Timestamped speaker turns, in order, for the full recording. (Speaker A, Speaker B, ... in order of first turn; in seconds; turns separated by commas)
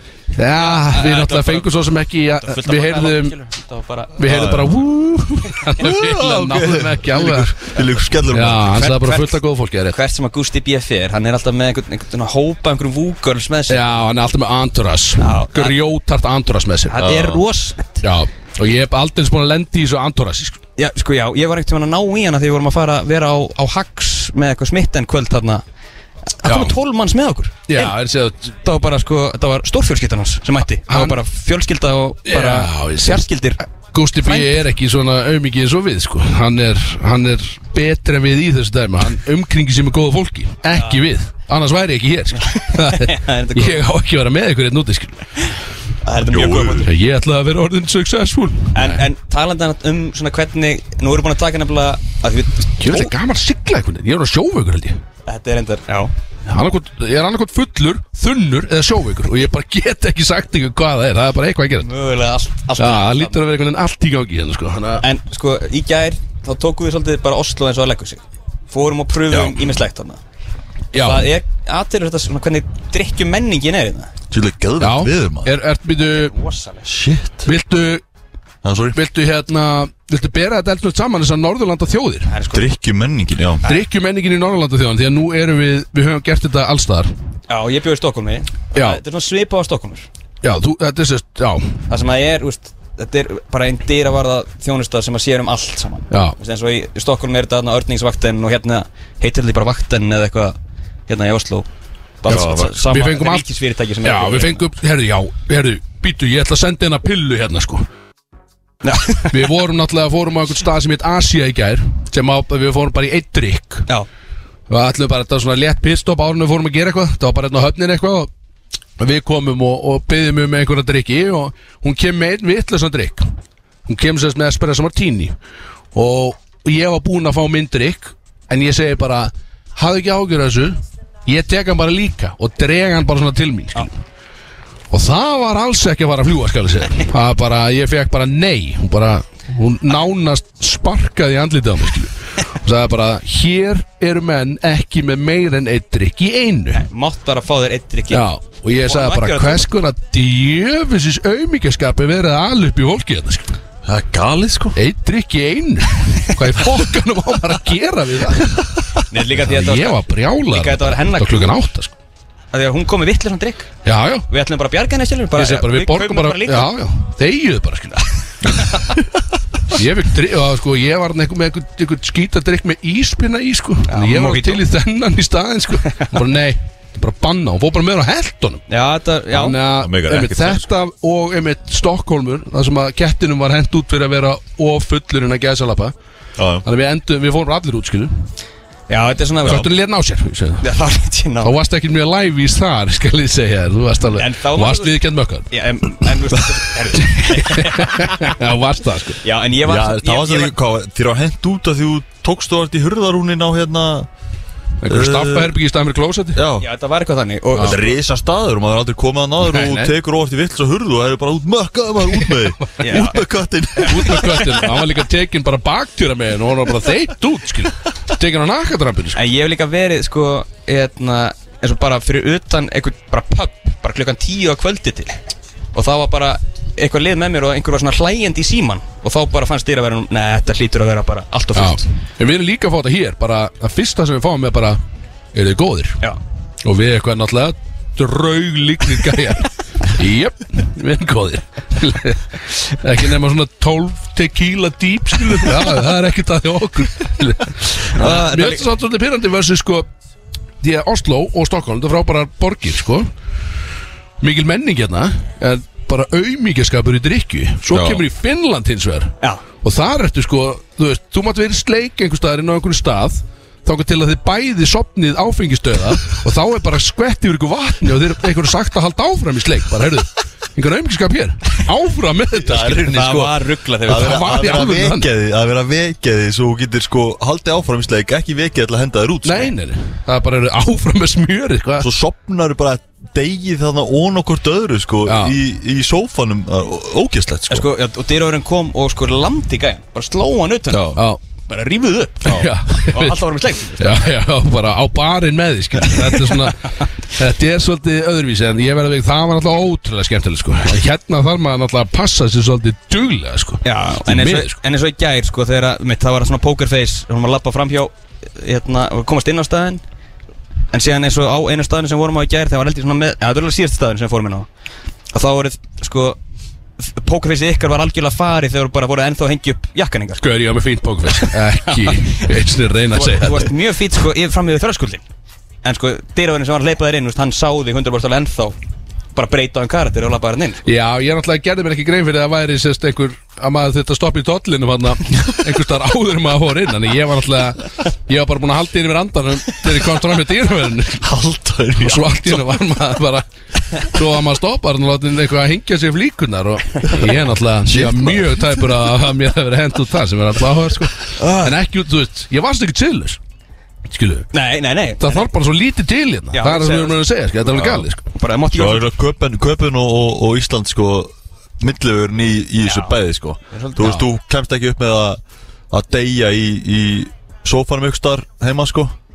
Speaker A: 0.3-3.3, Speaker B: 0.6-1.8, Speaker B: 2.4-4.2, Speaker A: 4.2-7.6, Speaker C: 4.2-4.7, Speaker C: 5.8-8.8, Speaker A: 8.3-10.0, Speaker B: 8.7-13.8, Speaker A: 13.7-17.1, Speaker B: 15.2-15.8, Speaker B: 16.9-18.1, Speaker C: 17.0-17.4, Speaker A: 18.0-20.6, Speaker B: 20.8-25.6, Speaker B: 26.4-27.9, Speaker A: 26.4-26.8, Speaker A: 27.7-28.6, Speaker B: 28.6-33.6, Speaker A: 30.9-31.2, Speaker A: 32.2-33.3, Speaker A: 33.8-45.3, Speaker B: 34.2-34.6, Speaker B: 40.7-41.0, Speaker B: 42.4-43.8, Speaker B: 46.0-46.9, Speaker C: 46.3-46.9, Speaker A: 46.8-49.0, Speaker B: 48.7-53.1, Speaker A: 52.8-55.0, Speaker B: 55.3-56.1, Speaker A: 56.5-61.9, Speaker B: 61.8-63.4, Speaker A: 62.8-65.0, Speaker B: 65.0-70.2, Speaker C: 69.3-69.6, Speaker A: 70.9-71.3, Speaker B: 71.0-74.1, Speaker C: 74.3-75.5, Speaker A: 74.8-76.3, Speaker B: 76.0-76.9, Speaker C: 76.8-77.5, Speaker A: 77.4-78.0, Speaker C: 78.6-79.0, Speaker A: 78.9-82.3, Speaker B: 82.2-82.7, Speaker C: 82.5-83.6, Speaker A: 83.6-87.1, Speaker B: 87.5-90.1, Speaker A: 88.7-89.0, Speaker A: 90.4-91.8, Speaker B: 91.9-100.6, Speaker A: 96.1-96.3, Speaker B: 101.1-101.7, Speaker B: 102.2-104.6, Speaker A: 102.3-103.5, Speaker C: 102.3-102.7, Speaker A: 104.0-107.8, Speaker B: 108.8-109.4, Speaker A: 109.3-113.9, Speaker A: 114.7-118.3, Speaker A: 119.0-123.3, Speaker A: 123.8-125.3, Speaker A: 125.9-133.9, Speaker A: 134.9-146.8, Speaker B: 146.7-148.2, Speaker A: 148.1-153.6, Speaker B: 148.8-149.7, Speaker C: 153.8-154.8, Speaker A: 154.7-161.9, Speaker B: 159.1-161.5, Speaker B: 162.5-163.7, Speaker A: 163.8-164.3, Speaker B: 164.3-166.7, Speaker A: 165.3-168.5, Speaker A: 169.7-178.6, Speaker B: 173.9-174.6, Speaker B: 178.7-179.6, Speaker A: 179.3-185.9, Speaker C: 179.8-180.6, Speaker C: 186.4-186.7, Speaker A: 186.6-188.3, Speaker B: 188.9-189.7, Speaker A: 189.4-190.7, Speaker B: 190.6-191.6, Speaker A: 191.4-195.5, Speaker B: 194.1-195.0, Speaker B: 195.5-198.1, Speaker A: 197.0-199.2, Speaker B: 199.2-200.5, Speaker C: 199.6-204.1, Speaker A: 204.8-206.4, Speaker C: 204.9-205.6, Speaker C: 206.3-206.7, Speaker B: 206.6-207.9, Speaker A: 207.5-207.8, Speaker C: 207.6-214.3, Speaker A: 209.4-209.9, Speaker A: 212.2-213.1, Speaker B: 212.8-213.2, Speaker B: 213.8-214.6, Speaker A: 213.8-219.2, Speaker B: 219.1-225.2, Speaker B: 225.7-231.9, Speaker A: 231.5-234.8, Speaker A: 235.3-236.0, Speaker A: 236.6-249.9, Speaker B: 247.9-248.7, Speaker A: 250.6-253.1, Speaker A: 254.2-273.3, Speaker C: 257.7-258.0, Speaker C: 272.4-273.3, Speaker B: 272.9-274.6, Speaker C: 273.8-279.5, Speaker A: 273.9-275.1, Speaker A: 279.2-281.9, Speaker C: 281.8-287.7, Speaker A: 285.0-285.4, Speaker B: 287.5-290.9, Speaker C: 290.7-291.0, Speaker A: 290.9-291.2, Speaker B: 291.5-294.1, Speaker A: 292.2-293.2, Speaker A: 293.8-304.5, Speaker B: 296.1-296.4, Speaker B: 303.6-309.8, Speaker B: 310.7-314.5, Speaker B: 315.1-316.2, Speaker B: 316.8-320.3, Speaker A: 320.2-323.5, Speaker B: 321.1-322.4, Speaker B: 322.9-325.0, Speaker B: 325.6-328.6, Speaker B: 329.1-330.6, Speaker A: 330.6-341.1, Speaker C: 341.0-342.4, Speaker A: 341.7-353.2, Speaker C: 347.6-348.8, Speaker C: 351.1-351.6, Speaker A: 353.9-354.3, Speaker B: 354.3-355.3, Speaker A: 355.0-358.0, Speaker B: 356.3-357.0, Speaker C: 357.5-357.9, Speaker B: 358.1-358.9, Speaker C: 358.5-368.9, Speaker B: 362.6-362.9, Speaker B: 363.5-363.9, Speaker A: 363.8-364.1